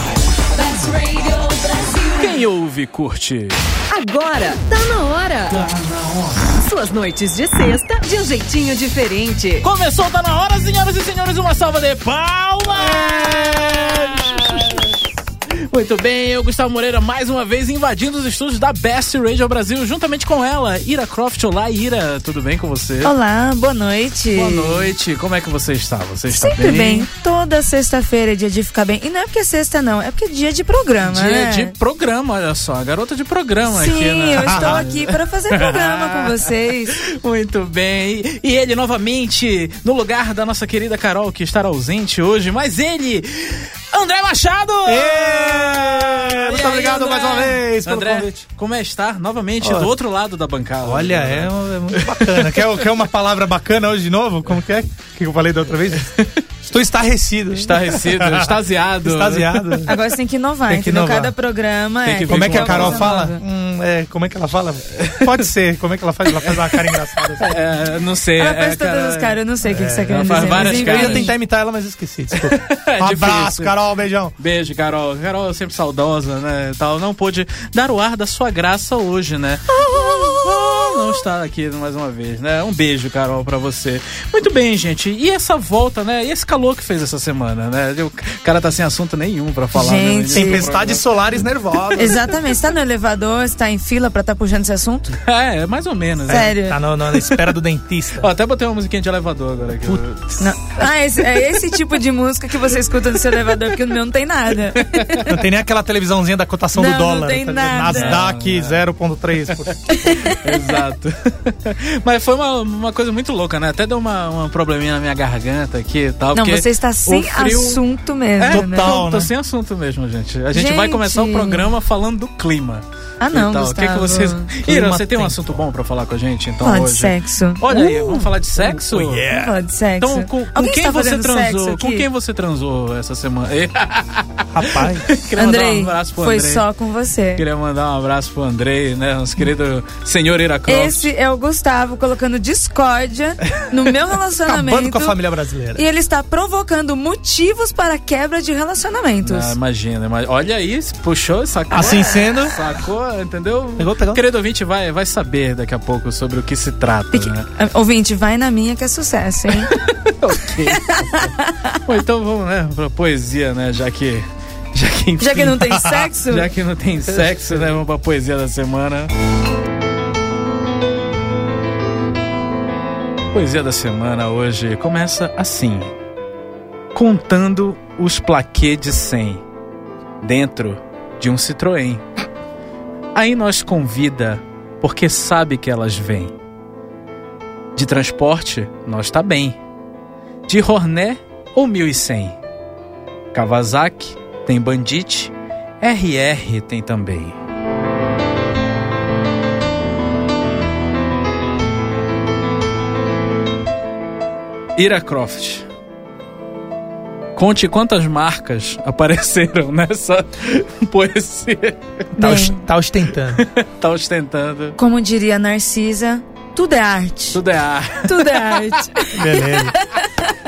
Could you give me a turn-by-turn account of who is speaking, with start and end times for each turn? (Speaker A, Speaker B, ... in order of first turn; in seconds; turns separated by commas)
Speaker A: 0.5-2.4, Speaker B: 2.2-3.6, Speaker A: 3.9-5.8, Speaker B: 5.7-6.4, Speaker A: 6.4-9.7, Speaker B: 9.6-15.0, Speaker C: 12.7-14.8, Speaker B: 15.6-23.1, Speaker D: 23.0-24.9, Speaker B: 24.3-27.1, Speaker D: 26.3-31.7, Speaker B: 31.1-52.8, Speaker D: 33.7-37.0, Speaker C: 34.4-34.8, Speaker C: 44.9-48.5, Speaker C: 49.6-49.9, Speaker C: 50.8-56.1, Speaker B: 56.0-56.3, Speaker C: 56.6-60.0, Speaker B: 57.6-59.8, Speaker D: 59.9-63.4, Speaker C: 60.7-61.3, Speaker B: 62.0-63.2, Speaker C: 62.3-67.5, Speaker B: 65.0-65.4, Speaker B: 66.4-69.4, Speaker D: 68.4-71.3, Speaker C: 69.7-74.3, Speaker B: 70.1-71.3, Speaker B: 72.3-73.8, Speaker B: 74.4-91.1, Speaker D: 89.7-90.7, Speaker C: 90.3-92.2, Speaker D: 92.0-95.2, Speaker B: 95.3-96.5, Speaker C: 96.3-98.3, Speaker D: 96.3-96.8, Speaker B: 97.1-97.5, Speaker B: 98.2-100.4, Speaker D: 100.4-105.2, Speaker B: 104.8-105.3, Speaker C: 105.3-109.8, Speaker D: 106.8-108.2, Speaker B: 107.9-108.8, Speaker B: 109.5-117.8, Speaker D: 109.9-110.6, Speaker D: 116.3-118.9, Speaker B: 118.4-129.3, Speaker C: 118.5-119.3, Speaker D: 120.5-121.7, Speaker D: 123.2-124.5, Speaker C: 124.7-125.5, Speaker D: 126.6-128.3, Speaker C: 128.6-129.6, Speaker D: 129.3-132.1, Speaker B: 130.0-136.6, Speaker C: 134.5-135.1, Speaker D: 135.4-137.4, Speaker B: 137.4-141.1, Speaker D: 140.7-145.2, Speaker C: 144.5-145.8, Speaker D: 145.8-149.6, Speaker B: 149.2-157.5, Speaker C: 151.7-152.6, Speaker C: 153.8-154.2, Speaker D: 157.1-159.7, Speaker B: 159.6-161.3, Speaker D: 160.7-161.8, Speaker B: 161.8-169.1, Speaker D: 165.2-166.5, Speaker C: 165.7-166.1, Speaker C: 167.1-167.7, Speaker B: 173.3-175.9, Speaker B: 176.9-179.4, Speaker B: 180.2-182.0, Speaker B: 183.2-186.3, Speaker B: 187.8-189.6, Speaker B: 190.5-192.4, Speaker B: 193.3-197.4, Speaker B: 204.8-205.7, Speaker B: 207.4-211.8, Speaker C: 212.2-213.5, Speaker D: 212.2-212.6, Speaker B: 213.4-214.8, Speaker D: 214.8-217.4, Speaker B: 217.3-219.1, Speaker D: 218.0-220.4, Speaker C: 219.1-219.8